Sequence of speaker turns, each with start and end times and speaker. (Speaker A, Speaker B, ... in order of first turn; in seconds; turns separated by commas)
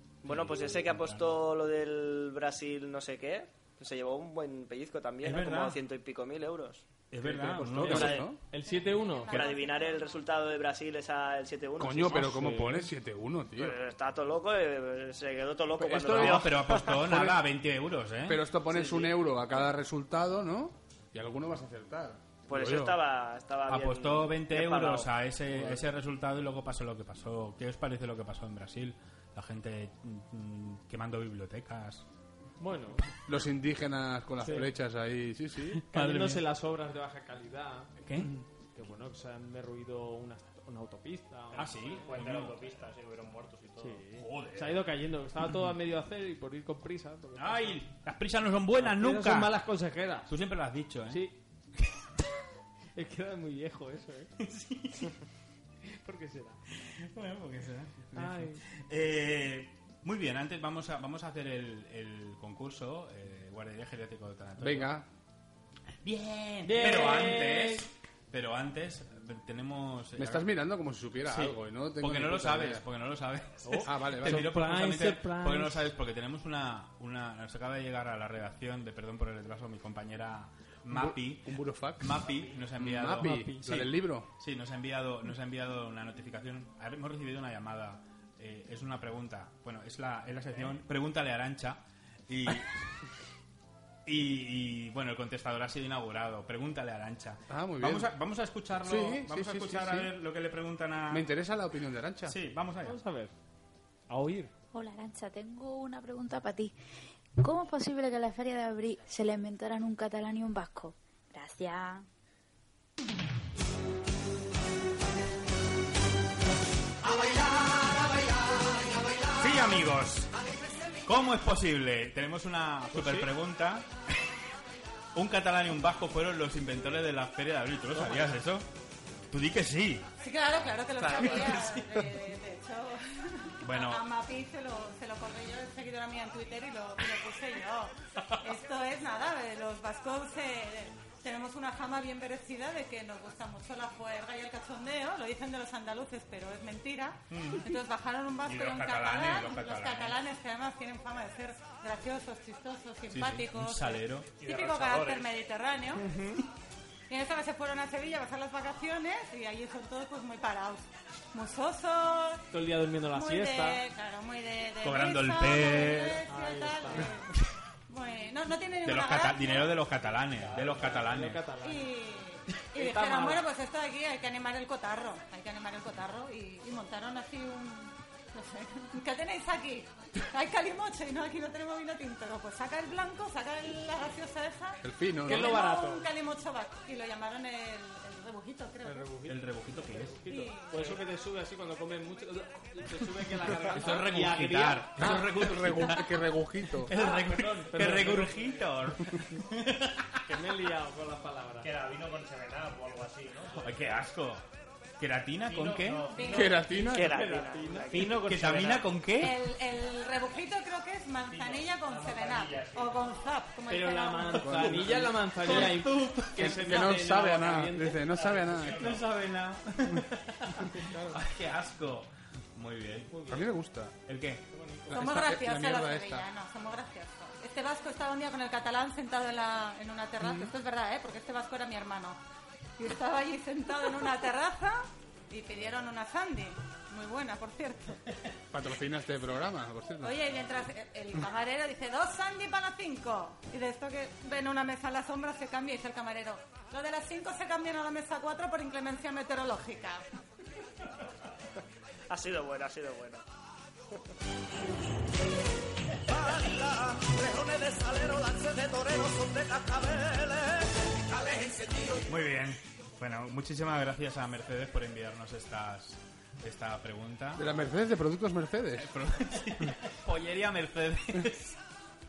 Speaker A: 0.2-1.4, Speaker B: 0.2-6.9, Speaker A: 5.2-5.8, Speaker A: 7.1-8.3, Speaker C: 7.2-8.4, Speaker D: 7.6-9.5, Speaker B: 7.8-8.3, Speaker E: 8.6-10.2, Speaker B: 9.3-12.2, Speaker C: 11.8-13.8, Speaker D: 12.0-12.9, Speaker B: 13.6-17.0, Speaker C: 15.8-17.4, Speaker A: 16.0-18.4, Speaker C: 18.2-23.0, Speaker B: 18.7-19.1, Speaker B: 22.5-25.1, Speaker A: 23.7-32.0, Speaker C: 25.5-25.8, Speaker D: 32.6-33.0, Speaker C: 33.3-35.8, Speaker D: 34.4-34.7, Speaker A: 35.8-36.5, Speaker D: 35.9-37.9, Speaker A: 38.0-38.3, Speaker D: 38.7-42.4, Speaker F: 41.5-44.0, Speaker A: 41.5-42.6, Speaker D: 43.8-47.8, Speaker A: 44.1-44.9, Speaker A: 47.3-49.6, Speaker D: 48.8-50.3, Speaker A: 50.2-51.3, Speaker D: 51.1-51.4, Speaker D: 53.0-54.3, Speaker A: 54.4-55.1, Speaker D: 56.0-56.6, Speaker A: 56.9-65.0, Speaker D: 58.1-58.6, Speaker C: 64.6-65.0, Speaker A: 66.0-70.5, Speaker D: 66.6-67.9, Speaker C: 70.2-72.8, Speaker A: 71.3-92.7, Speaker D: 73.6-75.9, Speaker C: 73.8-74.5, Speaker C: 80.9-84.3, Speaker D: 83.2-83.8, Speaker A: 94.0-101.3, Speaker C: 97.5-98.1, Speaker C: 98.8-100.1, Speaker C: 101.1-102.3, Speaker A: 102.3-103.0, Speaker D: 102.8-103.3, Speaker D: 104.1-104.5, Speaker G: 104.7-106.7, Speaker G: 107.4-112.0, Speaker A: 119.3-120.3, Speaker A: 121.0-123.9, Speaker D: 122.9-123.3, Speaker A: 125.1-128.7, Speaker D: 127.9-128.3, Speaker A: 129.3-130.1, Speaker E: 130.2-156.1, Speaker A: 131.2-131.8, Speaker A: 133.6-134.0, Speaker A: 147.3-147.7, Speaker A: 148.4-150.2, Speaker A: 153.1-154.3, Speaker F: 154.4-155.3, Speaker D: 155.9-156.4, Speaker E: 157.1-162.5, Speaker D: 162.5-163.8, Speaker E: 163.1-167.3, Speaker A: 164.8-166.2, Speaker D: 166.2-167.1, Speaker E: 167.9-169.8, Speaker A: 168.8-171.4, Speaker F: 170.3-171.0, Speaker D: 170.6-171.9, Speaker E: 171.6-189.1, Speaker D: 172.7-173.4, Speaker C: 184.8-185.6, Speaker D: 185.2-186.1, Speaker D: 188.8-195.1, Speaker A: 189.2-190.2, Speaker E: 190.3-191.0, Speaker A: 193.4-196.2, Speaker C: 195.0-196.9, Speaker A: 196.9-200.2, Speaker D: 196.9-198.6, Speaker D: 200.3-201.7, Speaker F: 201.6-204.0, Speaker A: 203.6-204.4, Speaker A: 205.0-206.2, Speaker F: 205.4-206.6, Speaker E: 206.1-206.6, Speaker C: 206.2-207.2, Speaker D: 206.6-208.2, Speaker B: 206.8-208.2, Speaker F: 207.8-208.9, Speaker A: 207.9-209.5, Speaker E: 209.2-214.6, Speaker F: 211.3-213.0, Speaker D: 213.7-218.2, Speaker C: 214.4-215.6, Speaker A: 215.4-216.8, Speaker C: 216.3-219.0, Speaker F: 218.2-219.1, Speaker A: 218.6-223.2, Speaker D: 220.8-221.1, Speaker D: 223.1-223.4, Speaker C: 223.3-223.9, Speaker A: 224.1-224.4, Speaker D: 224.5-225.0, Speaker C: 224.9-226.2, Speaker E: 224.9-232.2, Speaker C: 230.2-230.5, Speaker E: 232.8-238.0, Speaker C: 238.5-240.3, Speaker E: 240.0-250.1, Speaker B: 252.1-253.2, Speaker B: 256.0-262.0, Speaker A: 262.1-267.4, Speaker C: 267.4-268.9, Speaker A: 268.8-271.6